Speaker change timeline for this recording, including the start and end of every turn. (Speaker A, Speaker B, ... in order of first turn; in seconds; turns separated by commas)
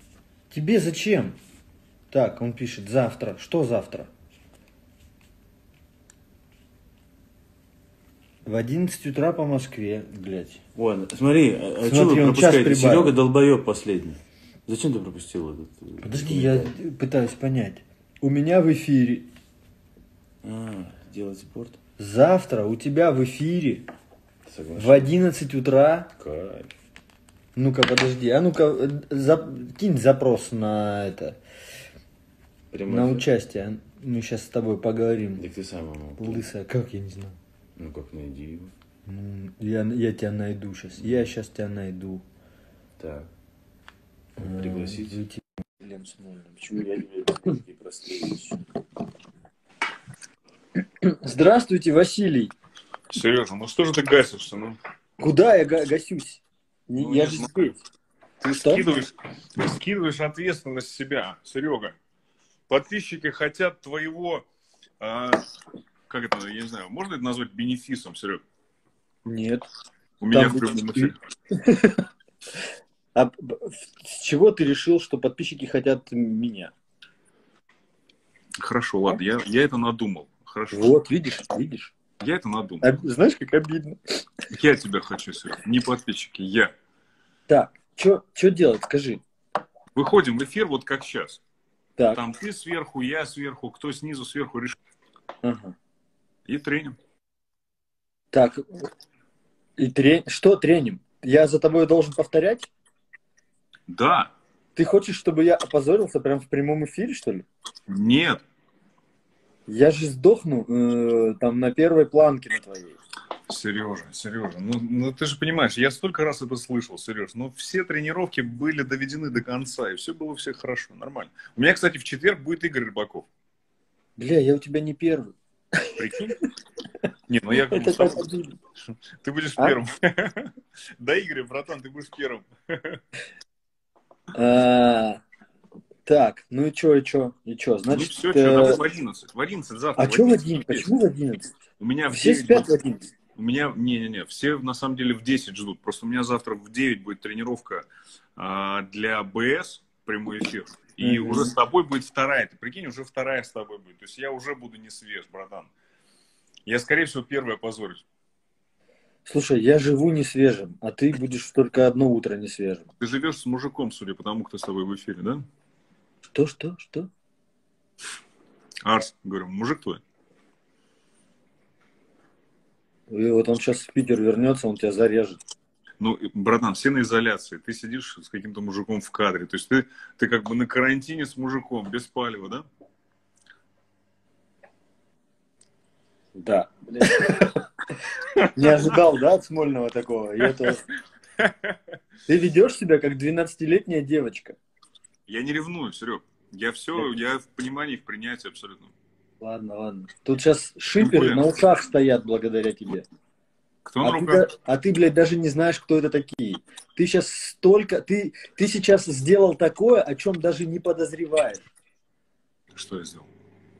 Speaker A: 0.5-1.4, Speaker A: 2.1-4.1, Speaker A: 8.4-10.6, Speaker B: 10.7-16.7, Speaker A: 11.8-13.1, Speaker A: 16.0-19.3, Speaker B: 20.4-21.8, Speaker A: 22.0-23.9, Speaker B: 24.4-25.1, Speaker A: 24.8-26.1, Speaker B: 26.2-26.7, Speaker A: 27.6-31.4, Speaker B: 32.7-33.3, Speaker A: 32.9-35.4, Speaker B: 35.4-36.4, Speaker A: 36.2-37.4, Speaker B: 37.8-38.7, Speaker A: 39.0-42.2, Speaker B: 43.0-43.3, Speaker B: 44.4-45.2, Speaker A: 44.4-46.4, Speaker B: 46.5-48.6, Speaker A: 51.0-52.5, Speaker C: 53.1-54.8, Speaker A: 55.2-57.8, Speaker C: 57.0-57.6, Speaker C: 58.4-61.9, Speaker A: 58.5-58.9, Speaker C: 62.7-64.4, Speaker C: 65.0-65.5, Speaker C: 66.1-68.4, Speaker A: 69.2-69.6, Speaker C: 70.2-71.1, Speaker A: 70.3-72.0, Speaker A: 73.1-76.7, Speaker C: 78.6-81.0, Speaker A: 80.7-81.9, Speaker C: 82.2-83.0, Speaker A: 82.8-84.0, Speaker C: 84.5-86.7, Speaker A: 87.5-89.2, Speaker C: 89.9-91.4, Speaker C: 92.1-94.8, Speaker A: 95.4-95.8, Speaker C: 96.5-97.0, Speaker A: 98.3-98.9, Speaker A: 99.8-102.7, Speaker C: 103.9-104.3, Speaker A: 104.8-107.5, Speaker C: 107.9-108.4, Speaker A: 109.7-113.0, Speaker C: 113.5-123.3, Speaker A: 124.2-125.9, Speaker C: 126.0-126.3, Speaker C: 127.3-128.3, Speaker A: 127.7-128.5, Speaker C: 128.9-133.0, Speaker A: 134.3-135.2, Speaker A: 136.1-138.8, Speaker C: 137.9-140.9, Speaker A: 140.0-141.5, Speaker C: 141.8-142.7, Speaker A: 142.1-143.0, Speaker C: 143.3-155.7, Speaker A: 151.0-151.5, Speaker C: 156.7-158.0, Speaker A: 159.2-162.8, Speaker C: 163.0-165.4, Speaker A: 166.3-167.1, Speaker C: 168.8-170.0, Speaker A: 173.1-175.4, Speaker C: 176.0-182.7, Speaker A: 186.3-187.6, Speaker C: 188.3-188.8, Speaker A: 188.4-190.8, Speaker C: 191.4-191.8, Speaker A: 192.3-194.6, Speaker C: 195.3-198.9, Speaker A: 199.4-203.0, Speaker C: 201.0-201.5, Speaker C: 203.8-204.4, Speaker A: 204.0-211.7, Speaker C: 212.7-213.3